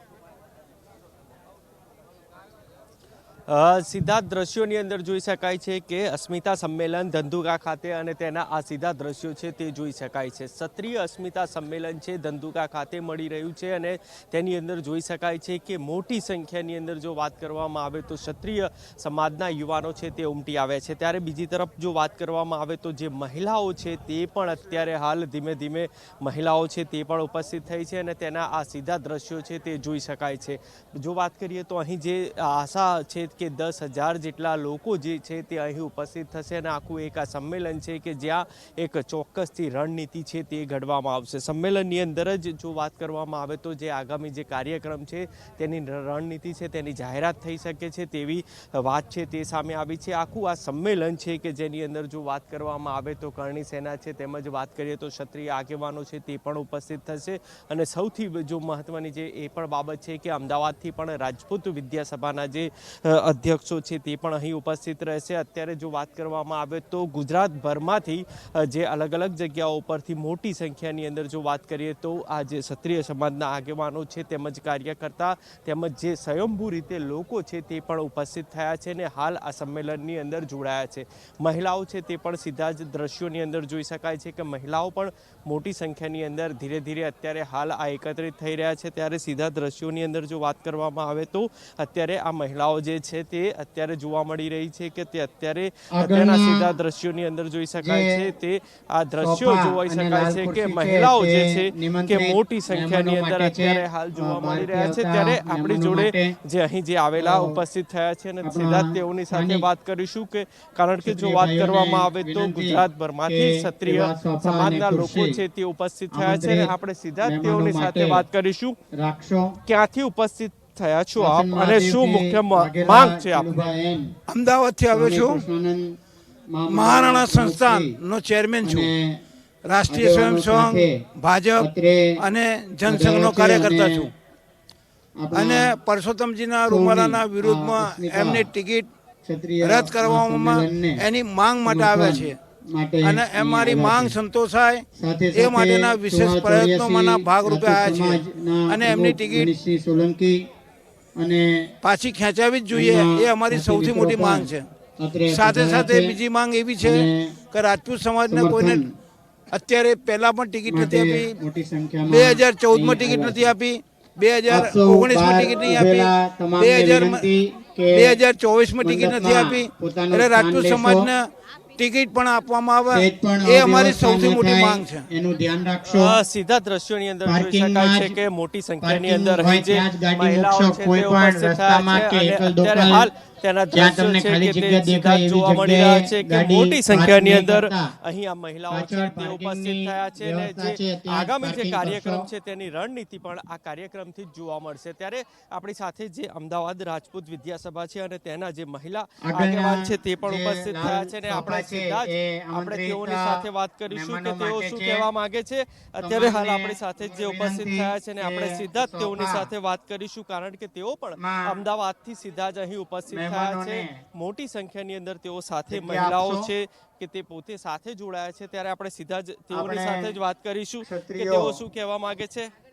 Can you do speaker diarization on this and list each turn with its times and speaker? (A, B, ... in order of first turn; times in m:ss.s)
0:03.5-1:58.8 A
1:36.0-1:36.8 B
1:37.8-1:38.2 B
1:39.2-1:46.4 B
1:47.2-1:47.6 B
1:48.4-1:49.6 B
1:51.0-1:55.4 B
1:56.1-1:58.2 B
1:58.9-1:59.6 B
1:59.7-2:03.7 A
2:01.2-2:04.1 B
2:04.3-2:05.4 C
2:04.9-2:06.0 B
2:06.5-2:08.0 B
2:06.7-2:08.9 C
2:08.6-2:09.2 B
2:09.7-2:14.1 C
2:09.9-2:11.0 B
2:11.6-2:12.1 B
2:12.8-2:14.1 B
2:15.2-2:15.8 B
2:15.3-2:18.9 C
2:16.6-2:18.5 B
2:19.2-2:21.0 B
2:19.6-2:22.4 C
2:21.6-2:24.2 B
2:23.0-2:24.8 C
2:25.0-2:30.4 B
2:25.3-2:29.5 C
2:31.2-2:31.7 B
2:31.8-2:34.7 C
2:32.7-2:36.2 B
2:35.3-2:38.8 C
2:36.8-2:37.4 B
2:38.3-2:38.9 B
2:39.5-2:41.4 C
2:40.7-2:43.6 B
2:42.1-2:47.3 C
2:44.5-2:48.2 B
2:47.9-2:51.2 C
2:48.8-2:51.1 B
2:51.8-2:55.0 C
2:52.9-2:56.2 B
2:55.9-3:42.5 A
2:57.2-2:58.2 B
2:58.8-3:03.1 B
3:03.7-3:07.9 B
3:08.7-3:12.3 B
3:19.2-3:25.1 B
3:26.0-3:29.5 B
3:31.2-3:31.6 B
3:33.1-3:34.0 B
3:35.7-3:36.5 B
3:39.5-3:40.2 B
3:40.8-3:41.6 B